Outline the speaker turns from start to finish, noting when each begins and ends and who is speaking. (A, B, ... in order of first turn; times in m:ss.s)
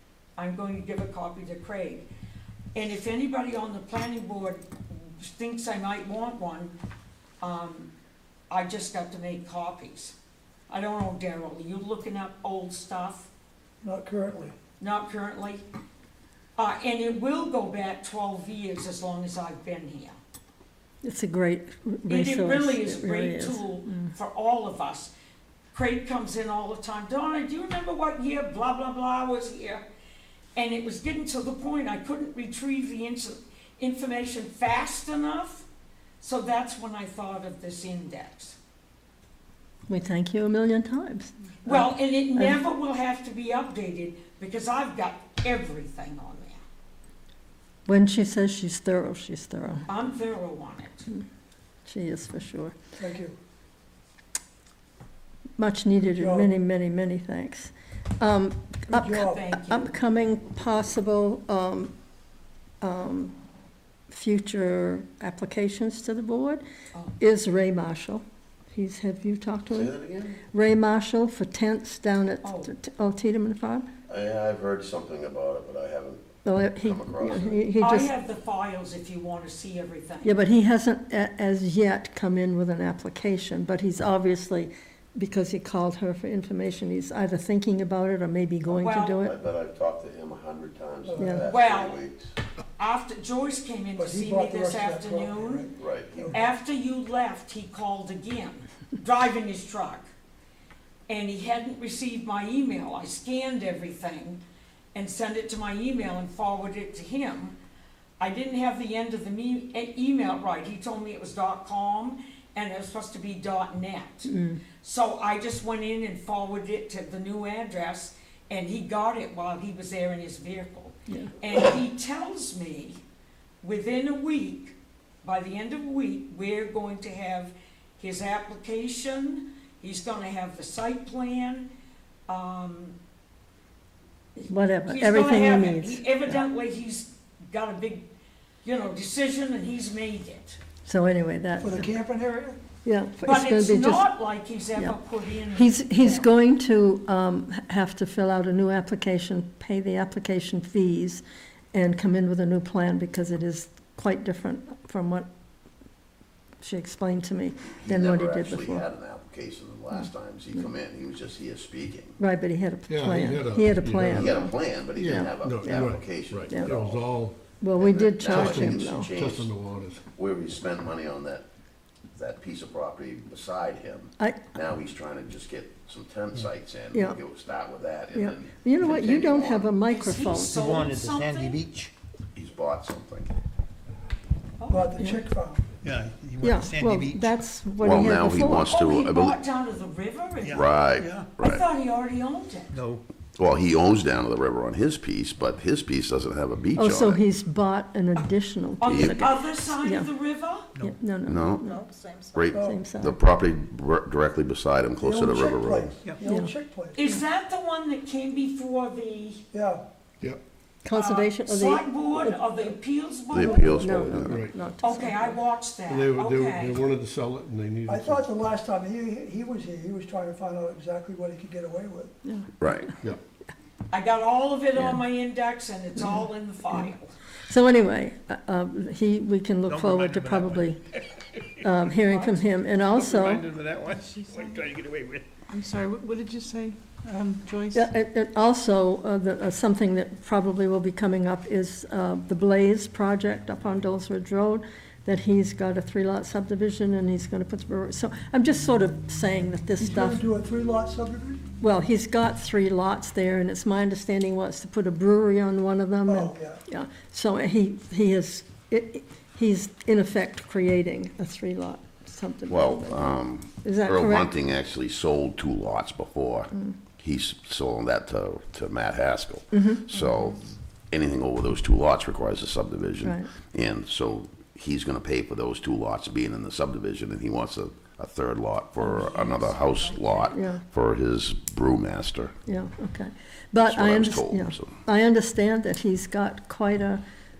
0:00.4-0:02.1 A
0:02.7-0:06.7 A
0:07.4-0:07.9 A
0:08.5-0:10.1 A
0:10.7-0:13.3 A
0:13.8-0:14.5 B
0:14.8-0:15.6 A
0:16.6-0:20.2 A
0:21.0-0:24.1 C
0:22.1-0:25.1 A
0:25.7-0:29.8 A
0:30.5-0:35.6 A
0:36.2-0:38.6 A
0:39.9-0:42.6 C
0:41.6-0:46.6 A
0:47.8-0:49.9 C
0:49.9-0:51.1 A
0:51.8-0:52.7 C
0:53.0-0:53.4 B
0:55.6-1:01.9 C
0:56.1-0:56.5 B
0:58.9-0:59.4 B
0:59.2-0:59.9 A
1:02.8-1:03.3 C
1:04.1-1:06.6 C
1:07.2-1:09.9 C
1:09.7-1:10.4 D
1:10.5-1:13.9 C
1:12.4-1:12.7 A
1:14.1-1:17.6 D
1:16.4-1:18.1 C
1:17.8-1:20.3 A
1:20.2-1:29.3 C
1:28.7-1:29.2 A
1:29.2-1:32.3 D
1:31.0-1:31.4 B
1:31.4-1:32.0 A
1:32.8-1:40.1 A
1:33.9-1:36.4 B
1:35.8-1:36.4 D
1:41.1-1:44.4 A
1:44.9-1:47.6 A
1:48.2-2:03.0 A
1:54.2-1:54.6 C
2:01.1-2:01.3 C
2:03.6-2:11.7 A
2:12.3-2:13.0 A
2:14.4-2:18.1 A
2:14.5-2:16.4 C
2:18.6-2:20.6 A
2:20.8-2:21.9 C
2:21.6-2:22.6 B
2:22.8-2:24.1 C
2:23.2-2:26.2 A
2:25.5-2:35.3 C
2:36.6-2:38.8 C
2:37.8-2:42.2 D
2:42.2-2:44.4 C
2:42.9-2:44.4 E
2:44.1-2:47.1 D
2:44.9-2:47.5 E
2:45.0-2:45.9 C
2:47.6-2:49.1 C
2:47.8-2:49.5 D
2:48.2-2:50.0 E
2:50.1-2:51.4 D
2:52.2-2:59.7 D
2:54.2-2:54.5 C
2:56.9-2:57.2 C
2:58.1-3:00.6 C
2:59.9-3:01.6 A
3:00.5-3:01.9 F
3:02.3-3:03.3 D
3:04.6-3:04.9 A
3:04.7-3:05.7 B
3:05.8-3:07.3 F
3:06.4-3:08.8 C
3:07.8-3:09.4 D
3:08.5-3:10.7 A
3:10.4-3:11.3 F
3:10.5-3:11.6 D
3:11.4-3:12.7 A
3:12.7-3:13.0 F
3:13.3-3:17.2 D
3:16.8-3:20.1 C
3:18.8-3:20.7 A
3:18.9-3:19.2 D
3:20.8-3:21.8 C
3:21.2-3:21.7 D
3:21.6-3:22.5 G
3:22.3-3:25.9 D
3:22.5-3:22.8 B
3:22.5-3:23.2 C
3:25.0-3:27.0 B
3:26.2-3:26.5 C
3:26.9-3:29.4 A
3:29.5-3:29.8 B
3:30.8-3:32.4 C
3:30.9-3:33.8 A
3:33.3-3:34.4 D
3:33.4-3:35.4 C
3:34.1-3:34.5 E
3:34.8-3:36.8 A
3:35.8-3:38.3 E
3:37.8-3:42.1 B
3:42.2-3:42.6 C
3:42.6-3:43.0 D
3:43.9-3:47.1 A
3:44.7-3:45.0 C
3:47.5-3:50.8 C
3:49.6-3:50.7 F
3:51.6-3:53.5 C
3:52.0-3:52.4 A
3:52.9-3:55.3 F
3:54.3-3:54.6 G
3:55.5-3:57.9 G
3:57.7-4:10.2 C
4:09.8-4:11.4 B
4:11.6-4:24.3 C
4:16.0-4:16.6 B
4:22.5-4:42.3 D
4:29.5-4:30.0 C
4:33.0-4:33.3 C
4:38.9-4:40.3 F
4:40.3-4:40.6 C
4:42.5-4:47.0 C
4:43.6-4:44.7 D